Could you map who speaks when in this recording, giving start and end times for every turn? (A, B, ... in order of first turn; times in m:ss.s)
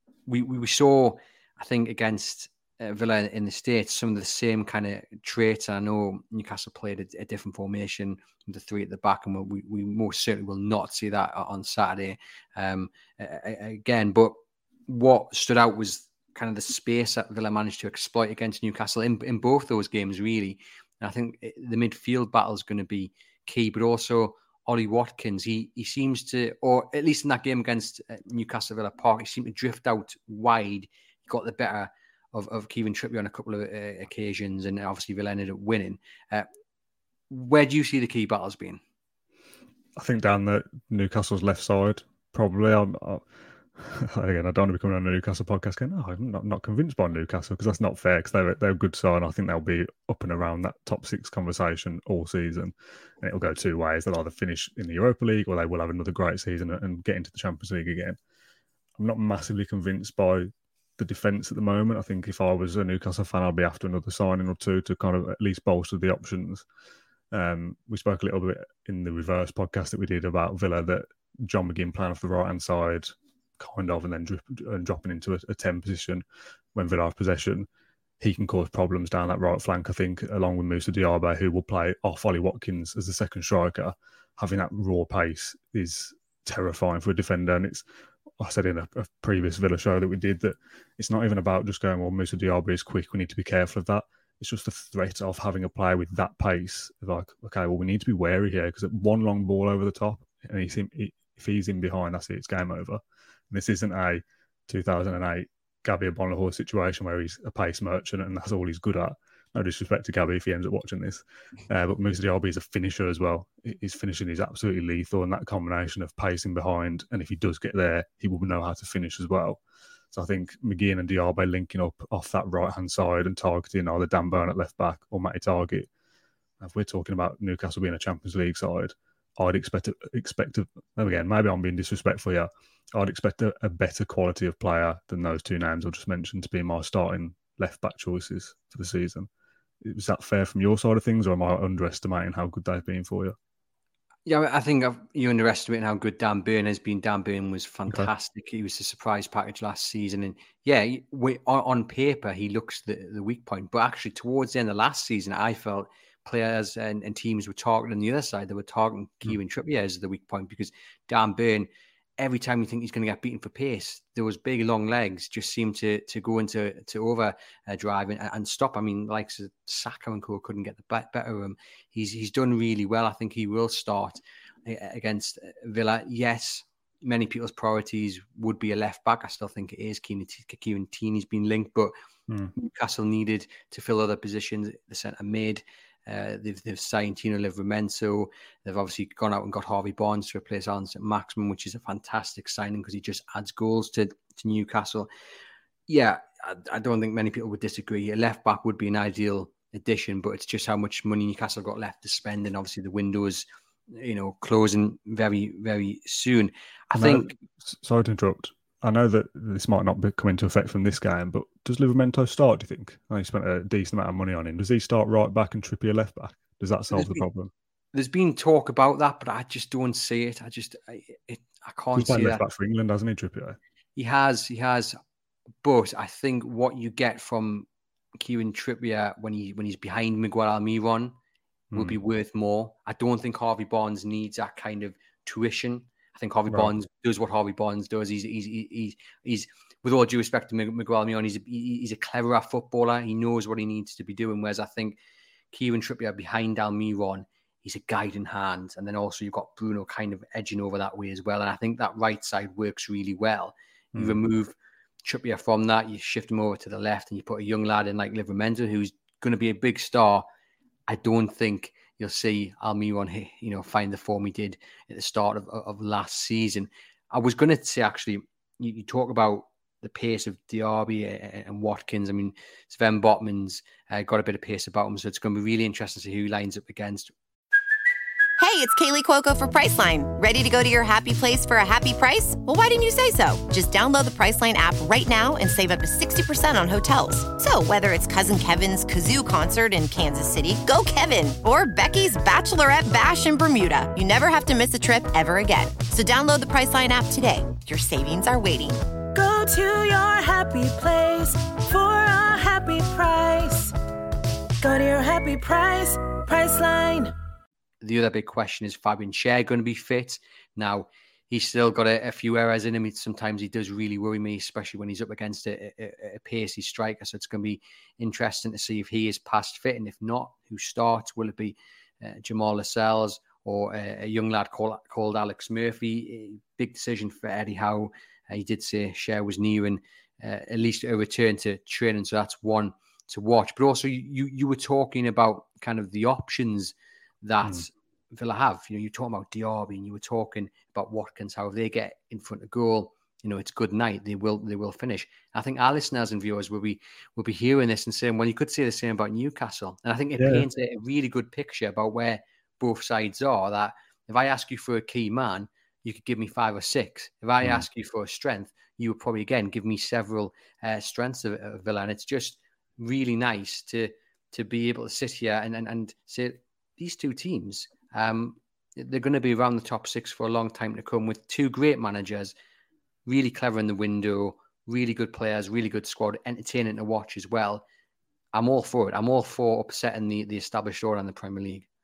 0:00.3-0:36.5 A
0:37.3-0:38.8 A
0:40.0-0:43.2 B
0:43.8-0:58.2 B
0:59.0-1:06.6 B
1:07.3-1:16.2 B
1:16.8-1:17.7 B
1:18.2-1:27.8 B
1:28.4-1:59.6 B
2:00.1-2:05.9 B
2:06.6-2:19.3 B
2:19.8-2:23.4 B
2:24.3-2:41.7 A
2:42.2-3:01.9 A
3:02.6-3:15.1 A
3:15.9-3:27.3 A
3:27.0-3:37.5 B
3:36.9-3:37.2 A
3:37.9-3:42.4 A
3:41.9-3:43.6 B
3:44.0-3:45.0 A
3:45.6-3:47.7 A
3:48.2-3:51.2 A
3:51.7-3:52.0 B
3:51.7-4:05.0 A
3:56.5-3:56.7 B
4:05.5-4:20.2 A
4:14.0-4:14.2 B
4:20.9-4:37.1 A
4:38.4-4:58.8 C
4:59.1-5:03.7 D
5:04.6-5:07.1 D
5:07.8-6:12.3 A
5:50.2-5:50.5 B
6:13.1-6:17.6 A
6:18.3-6:21.7 A